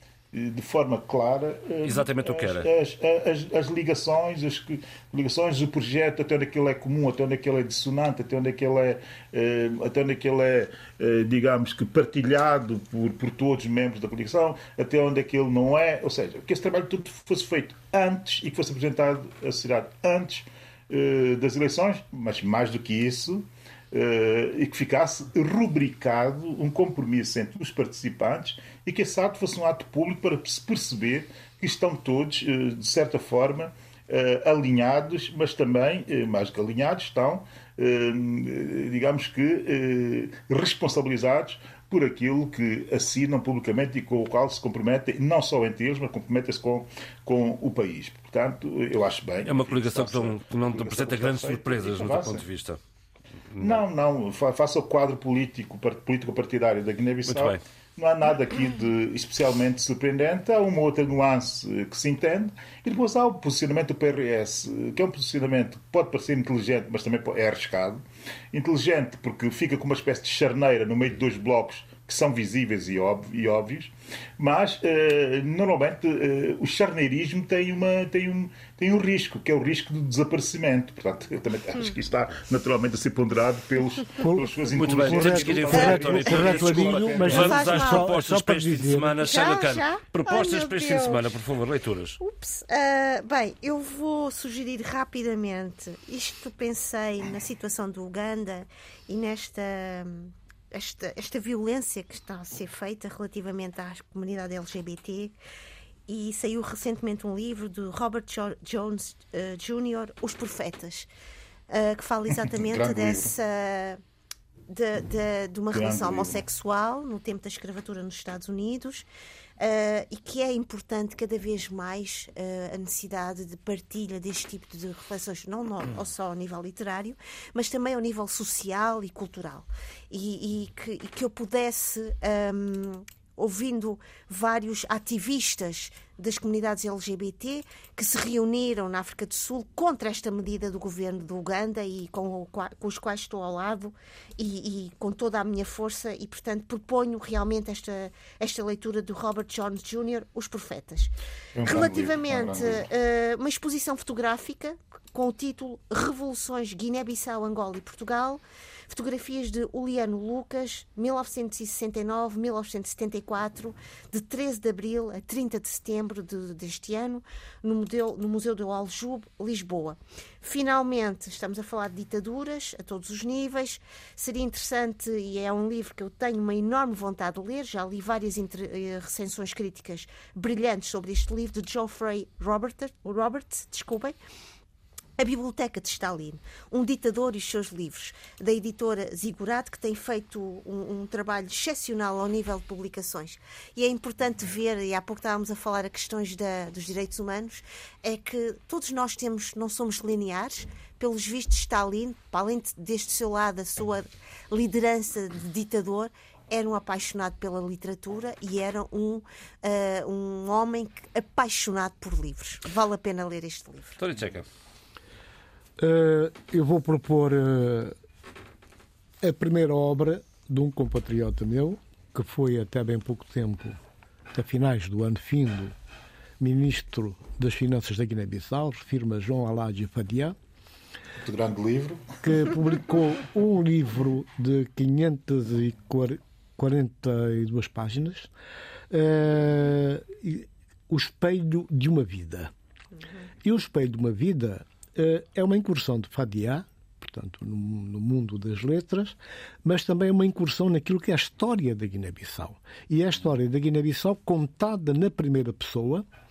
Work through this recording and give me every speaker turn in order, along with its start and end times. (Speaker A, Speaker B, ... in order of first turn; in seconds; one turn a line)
Speaker A: 0.3-52.4
Speaker B: 1.8-2.7
Speaker B: 49.4-52.8
Speaker B: 53.5-53.8
Speaker A: 53.6-87.8
Speaker B: 57.2-57.6
Speaker C: 84.3-89.2
Speaker B: 84.7-92.2
Speaker D: 87.3-88.1
Speaker D: 89.2-91.3
Speaker D: 92.2-105.3
Speaker D: 106.1-111.1
Speaker D: 111.7-114.0
Speaker A: 112.5-113.3
Speaker D: 114.7-119.0
Speaker A: 115.7-116.4
Speaker D: 119.6-151.1
Speaker A: 151.6-152.8
Speaker D: 151.6-184.2
Speaker D: 185.2-214.0
Speaker B: 214.0-214.4
Speaker C: 215.8-217.9
Speaker C: 219.2-223.8
Speaker C: 224.3-225.7
Speaker C: 226.4-230.3
Speaker A: 231.2-232.2
Speaker C: 232.2-238.3
Speaker C: 238.9-242.5
Speaker C: 243.4-256.0